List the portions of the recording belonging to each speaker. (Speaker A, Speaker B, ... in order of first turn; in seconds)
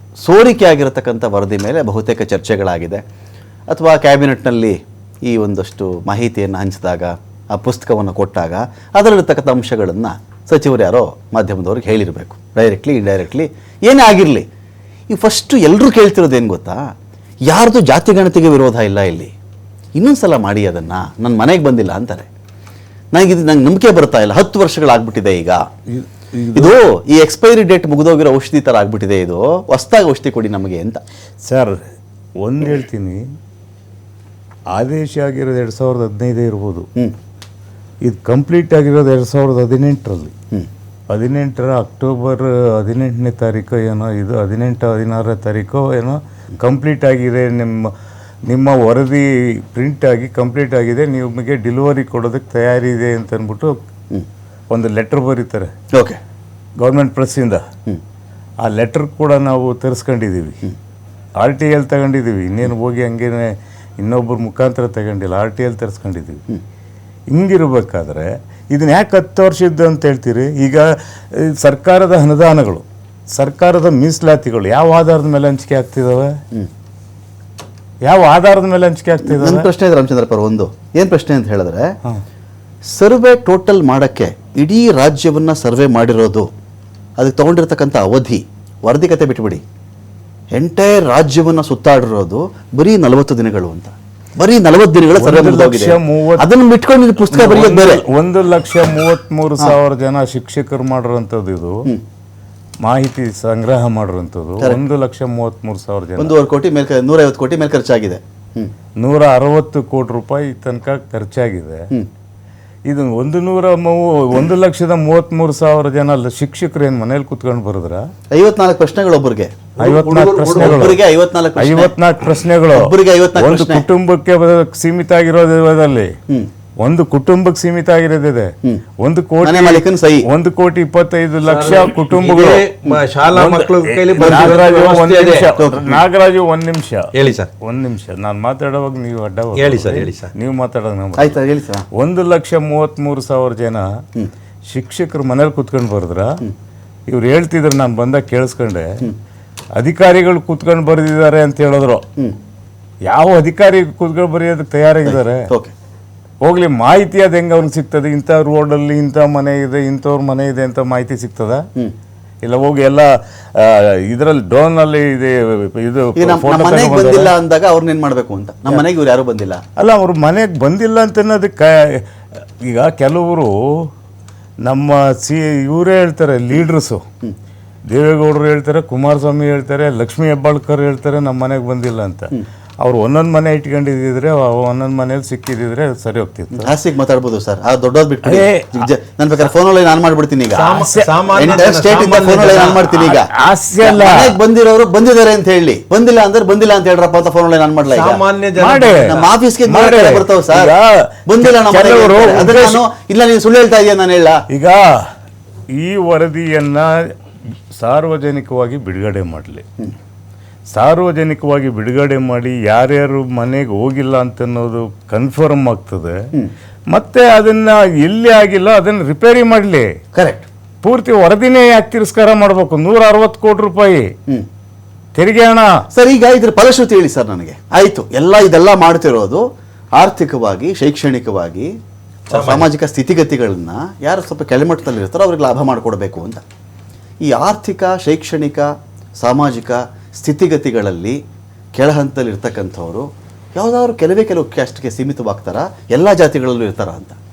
Speaker A: 0.2-3.0, 3.7-14.4, 15.1-16.9, 17.4-19.3, 20.0-22.3, 23.1-25.6, 26.5-31.0, 79.2-81.9, 82.9-86.5, 87.2-89.6, 90.5-98.0, 106.2-108.7, 118.3-119.7, 120.5-121.9, 122.7-123.8, 129.4-130.3, 134.2-134.6, 135.4-136.0, 141.2-141.9, 155.1-155.7, 166.2-169.6, 186.5-193.3, 193.8-198.2, 199.0-200.7, 201.3-204.4, 220.1-220.4, 225.9-229.4, 230.0-231.7, 232.3-236.4, 237.2-241.2, 241.7-247.2
Speaker B: 25.9-26.8, 31.4-31.8, 32.4-33.2, 34.7-36.9, 38.0-40.3, 41.1-47.9, 48.5-53.7, 54.7-55.7, 56.8-57.6, 58.6-60.6, 61.4-66.4, 67.3-76.3, 78.0-79.7, 95.2-96.5, 97.3-101.9, 102.8-106.3, 109.0-111.8, 112.9-118.0, 119.8-121.0, 121.6-126.1, 126.8-132.6, 133.3-141.4, 141.9-143.9, 144.7-146.4, 147.1-149.0, 149.8-152.0, 153.1-155.5, 156.4-161.7, 162.4-167.3, 169.8-173.9, 174.6-177.0, 177.9-182.3, 182.8-186.7, 188.2-188.9, 190.7-191.1, 192.8-194.4, 198.6-202.8, 204.5-205.0, 205.8-207.0, 207.7-209.6, 210.7-216.2, 216.9-219.9, 220.8-224.1, 225.1-225.7
Speaker C: 119.8-120.9, 131.4-135.6, 137.1-137.5, 139.6-140.3, 190.5-192.8, 197.9-199.3, 232.3-232.7